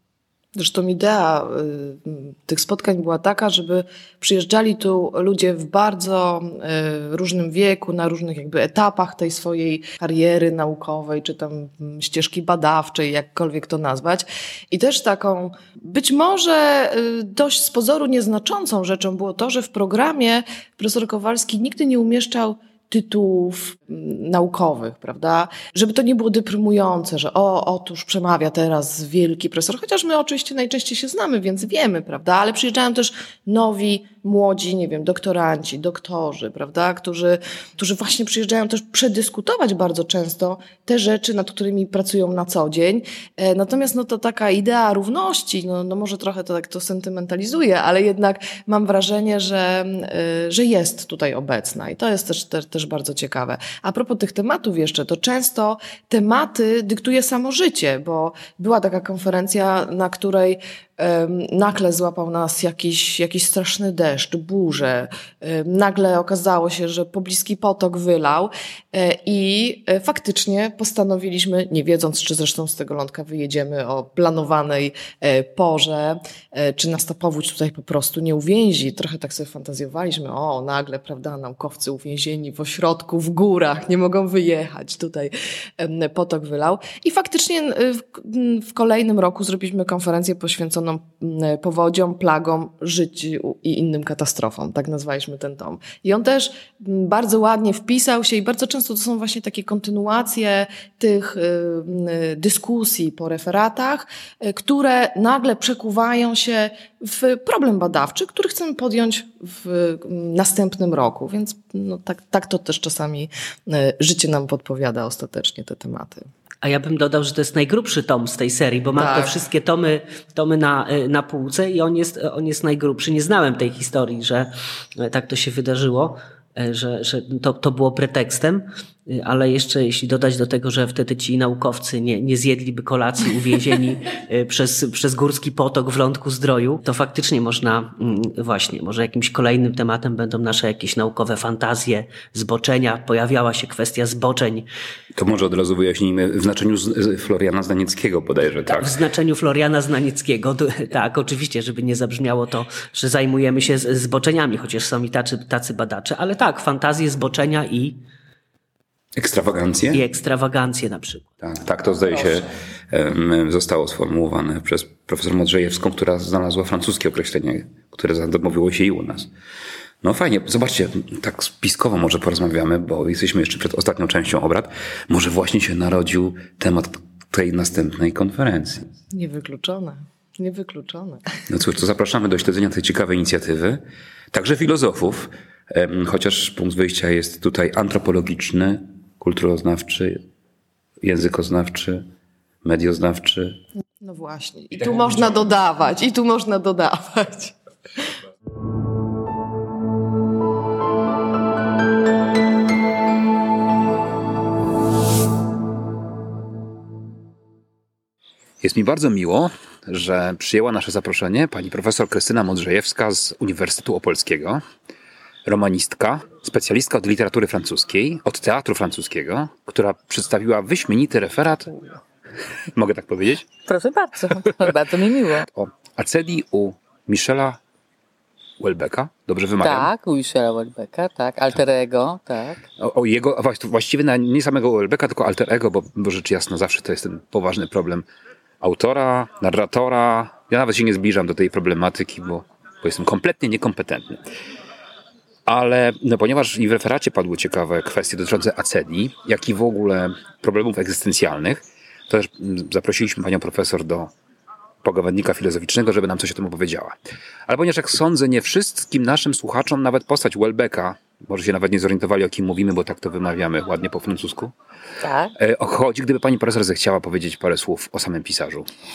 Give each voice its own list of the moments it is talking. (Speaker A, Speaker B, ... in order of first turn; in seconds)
Speaker A: 0.6-116.2, 118.9-119.4, 179.1-181.2, 194.0-197.6
Speaker B: 116.6-144.7, 148.7-158.0, 159.9-161.3
Speaker C: 145.2-148.9, 159.2-160.0, 161.4-169.3, 170.0-178.9, 181.5-190.2, 191.0-192.0, 192.6-193.6, 208.6-214.6, 215.4-222.0, 222.7-223.5, 225.5-227.6, 228.6-229.9, 232.8-238.1, 238.6-244.2, 245.5-254.1, 254.8-256.9, 257.5-264.5, 265.4-268.7
Speaker D: 223.7-225.5, 229.6-232.6, 265.0-265.3